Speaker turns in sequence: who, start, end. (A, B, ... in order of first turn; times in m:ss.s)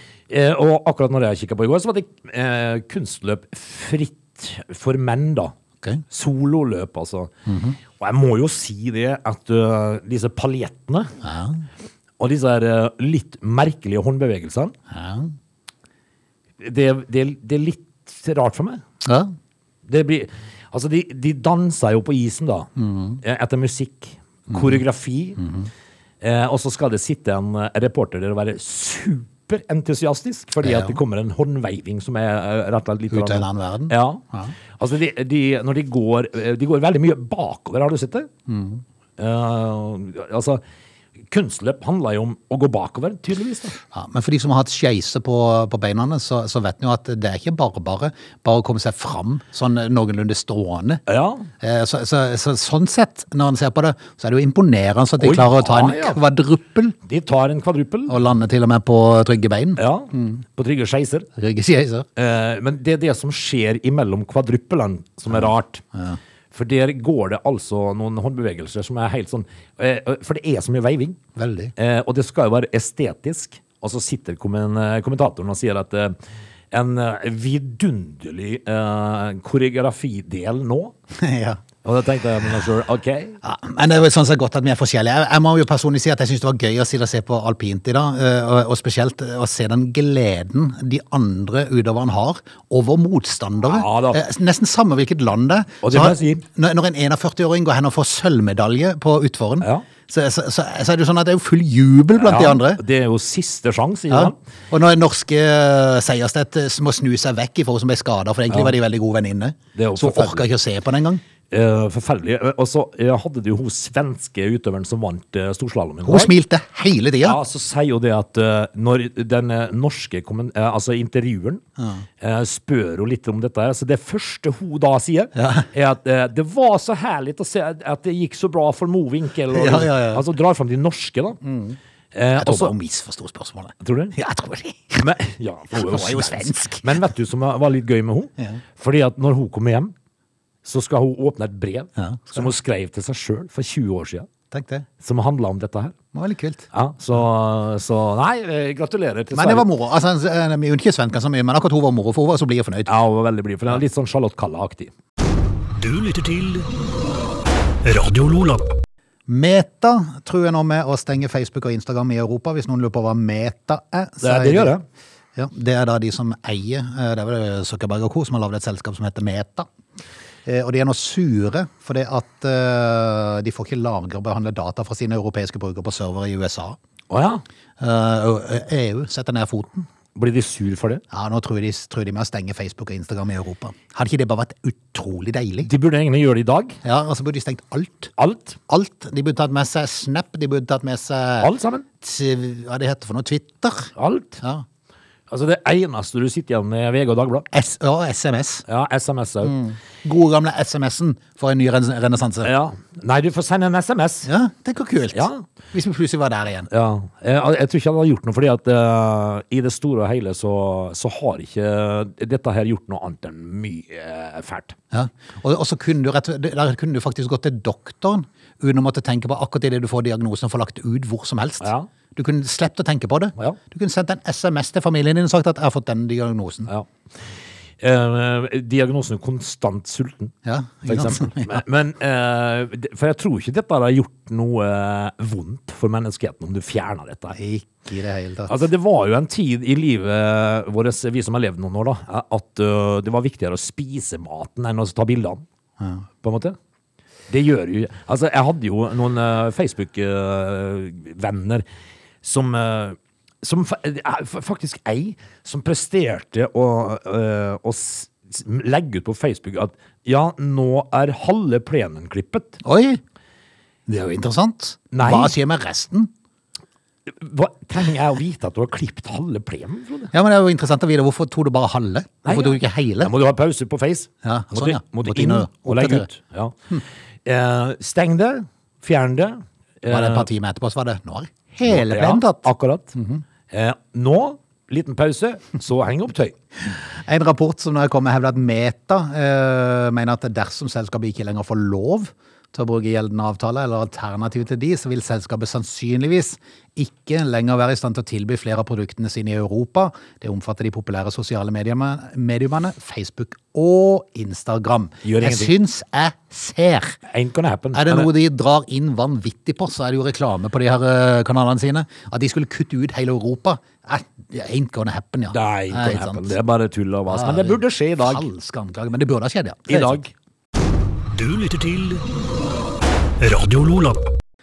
0:00.3-0:05.5 A
0:06.1-0:07.3 A
0:07.5-0:07.8 B
0:07.8-0:11.1 A
0:11.2-0:11.6 B
0:12.2-0:14.8 A
0:14.9-0:15.3 B
0:16.6-0:18.8 A
0:19.0-0:19.3 B
0:19.9-0:25.4 A
0:22.8-0:23.2 B
0:24.5-0:24.8 B
0:25.4-0:25.7 B
0:26.2-0:38.3 A
0:30.6-0:31.0 B
0:33.1-0:34.5 B
0:38.5-0:38.8 B
0:39.2-0:40.6 A
0:41.3-0:43.8 A
0:43.9-0:51.0 B
0:51.1-0:51.5 A
0:51.6-0:57.0 B
0:55.2-0:56.2 A
0:57.0-0:58.2 A
0:58.1-1:00.4 B
0:59.8-1:01.3 A
1:01.4-1:02.1 B
1:02.2-1:05.8 A
1:05.3-1:06.2 B
1:06.5-1:11.2 A
1:11.4-1:11.7 B
1:11.8-1:16.2 A
1:16.7-1:21.0 A
1:21.2-1:21.6 B
1:21.8-1:23.4 A
1:23.4-1:42.8 B
1:33.7-1:34.2 A
1:35.8-1:36.4 A
1:39.6-1:39.9 A
1:42.2-1:44.4 A
1:44.1-1:51.2 B
1:48.5-1:48.8 A
1:49.8-1:50.4 A
1:51.5-1:56.3 A
1:56.0-1:57.4 B
1:57.2-2:01.6 A
2:01.8-2:02.0 B
2:02.2-2:11.4 A
2:05.4-2:05.7 B
2:09.5-2:10.3 B
2:11.4-2:11.8 B
2:12.1-2:12.7 A
2:12.4-2:15.0 B
2:13.8-2:14.2 A
2:15.0-2:19.9 A
2:15.7-2:17.0 B
2:20.6-2:24.3 A
2:22.0-2:22.5 B
2:24.5-2:24.9 B
2:25.0-2:26.0 A
2:26.1-2:26.7 B
2:26.7-2:29.7 A
2:29.3-2:32.9 B
2:32.9-2:34.9 A
2:35.8-2:36.7 C
2:37.8-2:38.7 C
2:39.3-2:44.8 B
2:44.2-2:44.8 A
2:45.4-2:49.7 B
2:50.5-2:56.8 B
2:57.1-2:57.4 A
2:57.8-2:59.9 B
3:00.2-3:01.0 A
3:01.1-3:05.7 B
3:05.7-3:06.8 A
3:06.8-3:08.1 B
3:08.2-3:08.6 A
3:08.7-3:14.6 B
3:11.4-3:11.8 A
3:14.0-3:14.4 A
3:15.3-3:17.5 A
3:17.5-3:18.7 B
3:18.7-3:19.6 A
3:19.4-3:22.5 B
3:22.4-3:24.3 A
3:24.3-3:26.7 B
3:25.1-3:25.4 A
3:26.7-3:34.8 A
3:34.9-3:46.7 B
3:41.6-3:41.9 A
3:47.8-3:50.3 A
3:50.4-3:51.6 B
3:50.9-3:57.4 A
3:57.3-3:58.6 B
3:58.5-4:05.4 A
4:05.8-4:06.0 B
4:06.2-4:06.6 A
4:07.3-4:11.6 A
4:12.2-4:22.6 A
4:22.6-4:23.0 B
4:23.9-4:26.1 B
4:24.9-4:25.4 A
4:27.1-4:30.1 A
4:30.1-4:33.1 B
4:32.2-4:36.7 A
4:34.2-4:36.1 B
4:37.2-4:40.3 A
4:39.9-4:43.2 B
4:41.6-4:43.0 A
4:43.5-4:46.4 A
4:46.7-5:07.0 B
5:05.0-5:05.5 A
5:07.1-5:08.1 A
5:07.7-5:16.4 B
5:15.3-5:18.3 A
5:17.1-5:20.0 B
5:19.7-5:20.1 A
5:21.1-5:22.0 C
5:23.2-5:24.1 C